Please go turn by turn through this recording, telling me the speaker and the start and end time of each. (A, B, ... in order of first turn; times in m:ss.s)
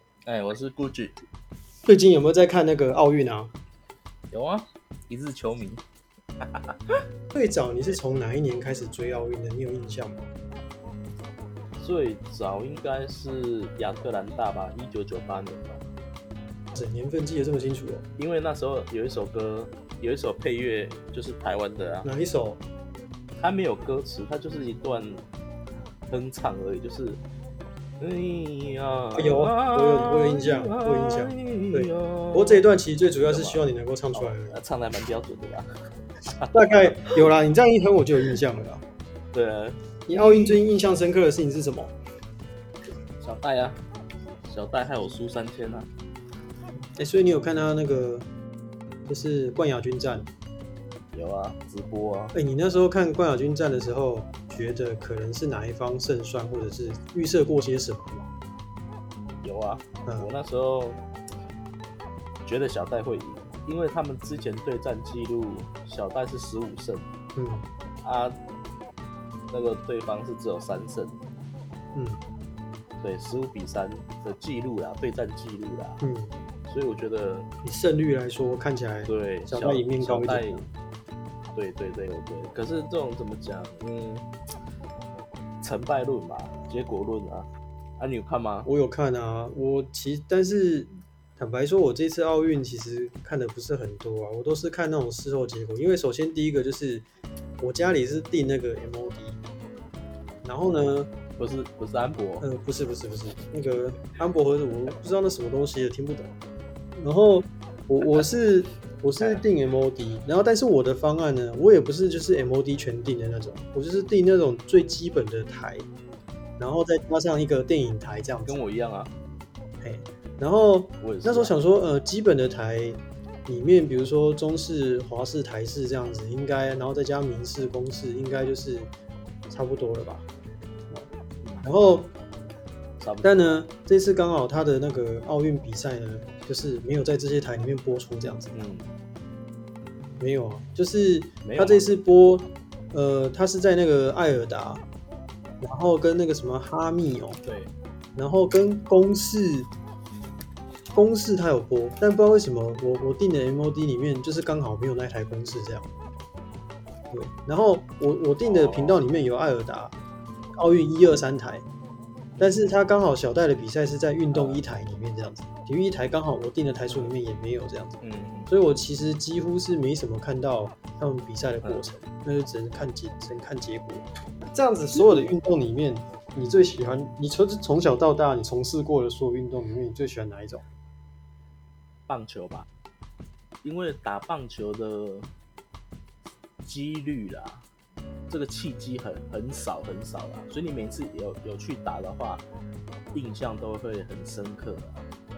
0:00.2-0:01.2 A
0:01.8-0:03.5 B
0:04.3-0:05.8 A
0:06.4-0:07.0 A
0:07.3-0:10.3 B
0:11.8-0:15.8 A
0:16.7-0:18.0 B
0:18.2-0:22.1 A
0:22.0-0:22.6 B
0:23.4-0:25.2 A
0:26.1-0:27.2 A
0:28.0-0:32.6 A
0:29.1-0:34.6 B
0:33.2-0:35.7 A
0:36.4-0:37.2 A
0:36.5-0:38.8 B
0:39.3-0:40.6 A
0:40.1-0:41.9 B
0:43.2-0:43.8 A
0:44.5-0:45.9 A
0:47.0-0:48.2 B
0:49.1-0:50.3 B
0:51.1-0:52.3 A
0:52.3-0:58.3 B
0:59.4-1:01.0 A
1:02.4-1:07.1 A
1:07.4-1:07.6 B
1:08.0-1:08.4 A
1:09.5-1:11.2 A
1:11.9-1:12.2 B
1:13.0-1:16.0 A
1:16.0-1:16.3 B
1:16.7-1:17.5 A
1:17.6-1:20.7 B
1:19.0-1:20.6 A
1:21.5-1:24.3 A
1:25.6-1:28.7 A
1:28.6-1:37.0 B
1:37.6-1:39.4 B
1:40.4-1:41.1 B
1:41.4-1:42.5 A
1:42.4-1:46.4 B
1:47.0-1:55.9 B
1:56.6-1:58.6 B
1:58.4-1:59.1 A
1:59.8-2:08.9 B
2:01.0-2:01.6 A
2:09.5-2:10.2 B
2:11.4-2:11.7 A
2:11.6-2:12.1 B
2:13.0-2:13.6 A
2:13.2-2:18.6 B
2:18.5-2:18.9 A
2:20.2-2:24.8 B
2:21.4-2:22.0 A
2:25.6-2:27.4 B
2:27.4-2:27.7 A
2:28.2-2:29.7 B
2:30.9-2:35.9 B
2:37.1-2:39.9 B
2:38.4-2:39.0 A
2:40.6-2:41.6 B
2:42.3-2:42.7 A
2:42.4-3:00.6 B
2:44.3-2:44.6 A
2:48.0-2:48.5 A
3:02.1-3:02.6 A
3:03.6-3:05.3 A
3:06.6-3:07.6 A
3:08.3-3:12.4 A
3:13.1-3:15.0 A